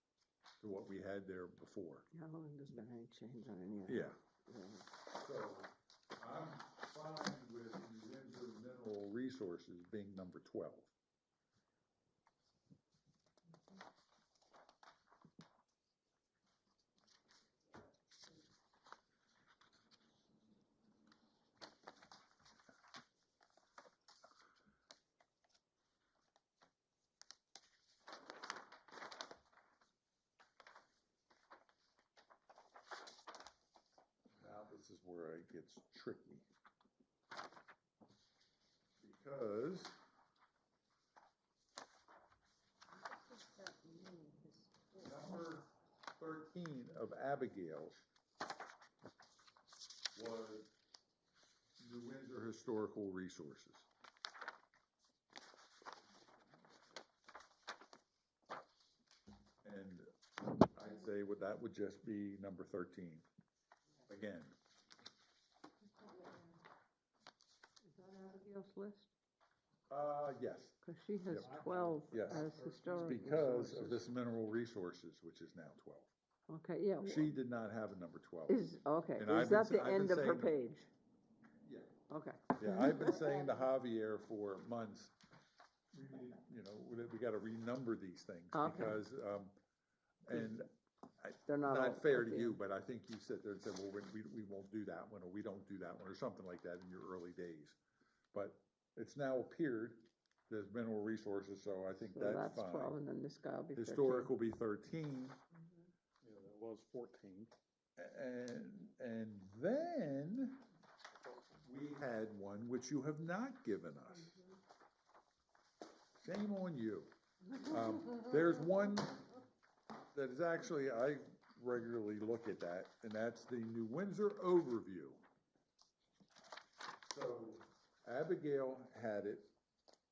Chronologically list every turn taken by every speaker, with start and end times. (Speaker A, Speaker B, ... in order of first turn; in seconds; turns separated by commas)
Speaker A: 0.6-2.1, Speaker B: 2.1-4.9, Speaker A: 3.9-4.2, Speaker A: 5.1-10.9, Speaker A: 34.4-36.5, Speaker A: 39.0-40.0, Speaker B: 43.0-45.1, Speaker A: 45.0-48.0, Speaker A: 50.1-50.7, Speaker A: 51.8-53.9, Speaker A: 59.6-63.2, Speaker A: 64.1-64.5, Speaker B: 66.0-66.4, Speaker B: 67.9-69.1, Speaker A: 69.9-71.5, Speaker B: 70.8-74.0, Speaker C: 71.4-74.0, Speaker A: 72.1-76.1, Speaker B: 76.5-77.3, Speaker A: 77.0-78.6, Speaker B: 78.5-80.9, Speaker A: 79.2-80.6, Speaker A: 81.6-81.9, Speaker B: 82.1-83.5, Speaker A: 82.5-85.1, Speaker A: 85.9-89.5, Speaker B: 88.5-89.0, Speaker A: 90.2-97.8, Speaker B: 91.5-92.6, Speaker A: 98.3-103.0, Speaker B: 102.1-104.3, Speaker A: 103.7-105.4, Speaker C: 106.2-107.5, Speaker A: 108.0-110.6, Speaker A: 111.5-114.4, Speaker A: 116.2-119.4, Speaker A: 120.1-125.2, Speaker A: 127.1-129.5